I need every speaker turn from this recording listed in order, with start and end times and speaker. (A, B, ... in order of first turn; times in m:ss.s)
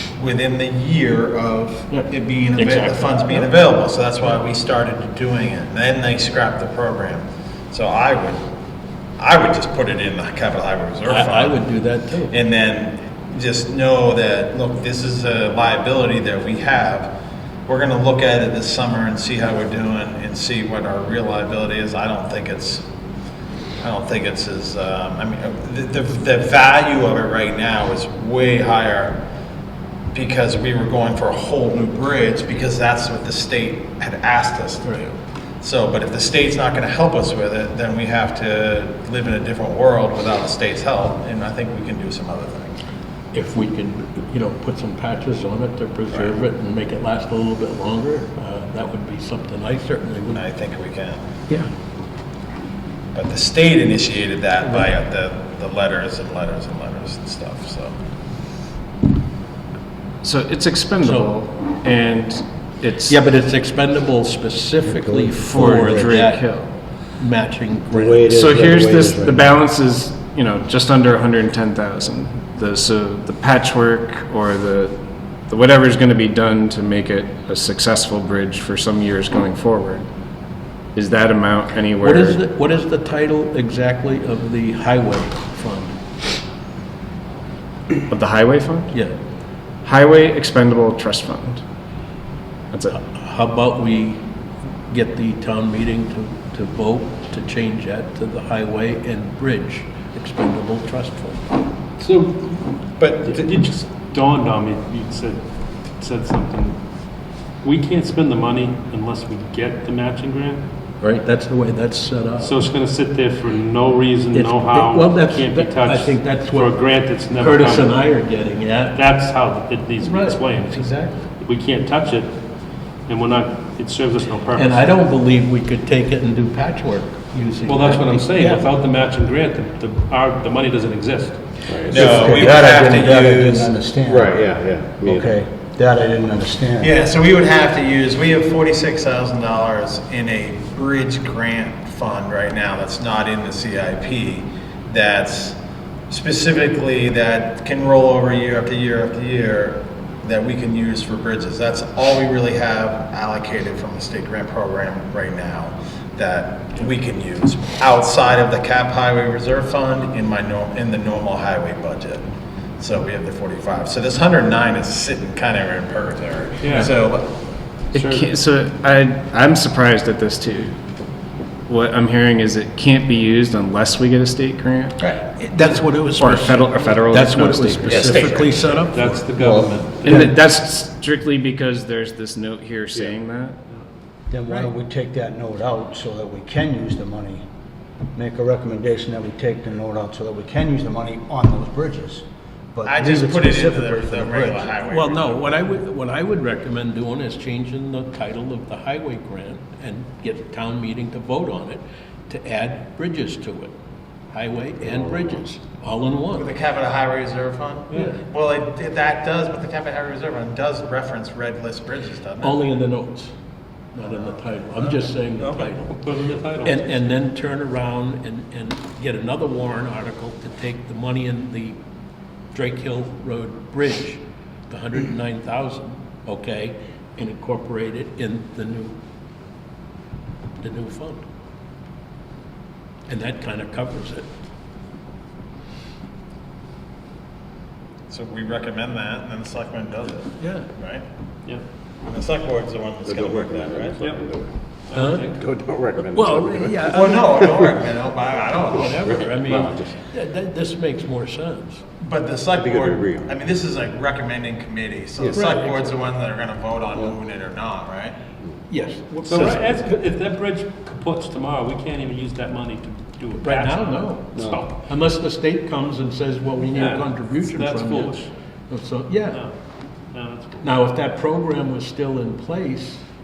0:00.2-0:08.4 A
0:01.9-0:03.5 B
0:09.2-0:11.6 A
0:11.1-0:12.4 B
0:12.3-0:17.1 A
0:17.7-0:22.8 A
0:23.8-0:29.2 A
0:30.1-0:42.8 A
0:43.3-0:50.4 B
0:50.3-0:51.2 A
0:53.1-0:57.9 A
1:00.2-1:03.2 C
1:01.0-1:01.4 B
1:03.1-1:06.5 B
1:04.8-1:06.2 D
1:05.4-1:06.7 C
1:07.2-1:08.5 B
1:07.9-1:09.6 D
1:08.4-1:20.1 C
1:21.0-1:22.4 C
1:22.0-1:26.0 B
1:28.1-1:28.9 C
1:29.8-1:31.6 C
1:32.9-1:34.2 B
1:34.9-1:41.4 B
1:42.0-1:42.5 B
1:43.0-1:43.5 A
1:43.3-1:45.4 E
1:45.9-1:46.8 E
1:47.6-1:50.6 E
1:51.0-1:52.6 B
1:52.4-1:57.9 E
1:54.3-1:59.0 B
1:58.9-2:02.4 E
2:00.0-2:01.3 B
2:03.1-2:05.0 E
2:04.6-2:08.6 B
2:07.6-2:11.4 E
2:11.7-2:12.1 F
2:11.9-2:13.7 A
2:11.9-2:16.9 D
2:14.0-2:15.3 F
2:16.8-2:25.6 A
2:26.1-2:42.2 A
2:42.8-2:47.3 A
2:46.6-2:46.9 E
2:47.9-2:48.3 E
2:47.9-2:50.8 C
2:51.7-2:55.0 C
2:55.0-2:59.3 B
2:56.2-2:58.2 C
2:57.9-2:58.7 A
2:58.9-3:00.3 E
2:59.4-3:00.4 D
3:00.0-3:03.6 C
3:04.3-3:07.4 D
3:08.2-3:14.7 D
3:12.8-3:15.5 A
3:14.9-3:23.7 B
3:24.3-3:26.5 B
3:24.9-3:25.3 F
3:26.4-3:32.6 A
3:27.9-3:28.2 B
3:32.4-3:33.3 B
3:33.9-3:36.0 B
3:34.0-3:34.4 A
3:35.4-3:37.0 E
3:36.6-3:41.8 B
3:42.5-3:49.0 B
3:50.6-3:51.2 B
3:53.1-3:54.3 B
3:58.1-4:01.0 A
4:00.4-4:00.7 B
4:02.0-4:04.0 A
4:03.0-4:04.5 F
4:04.9-4:05.4 E
4:05.0-4:05.4 B
4:05.3-4:06.9 F
4:06.0-4:07.7 B
4:06.9-4:09.6 A
4:08.7-4:11.8 B
4:09.0-4:09.9 F
4:12.0-4:18.2 A
4:12.5-4:13.4 F
4:15.2-4:16.0 B
4:18.7-4:19.8 B
4:19.2-4:24.8 E
4:23.4-4:29.4 B
4:26.8-4:28.3 E
4:30.1-4:30.8 E
4:30.6-4:33.0 B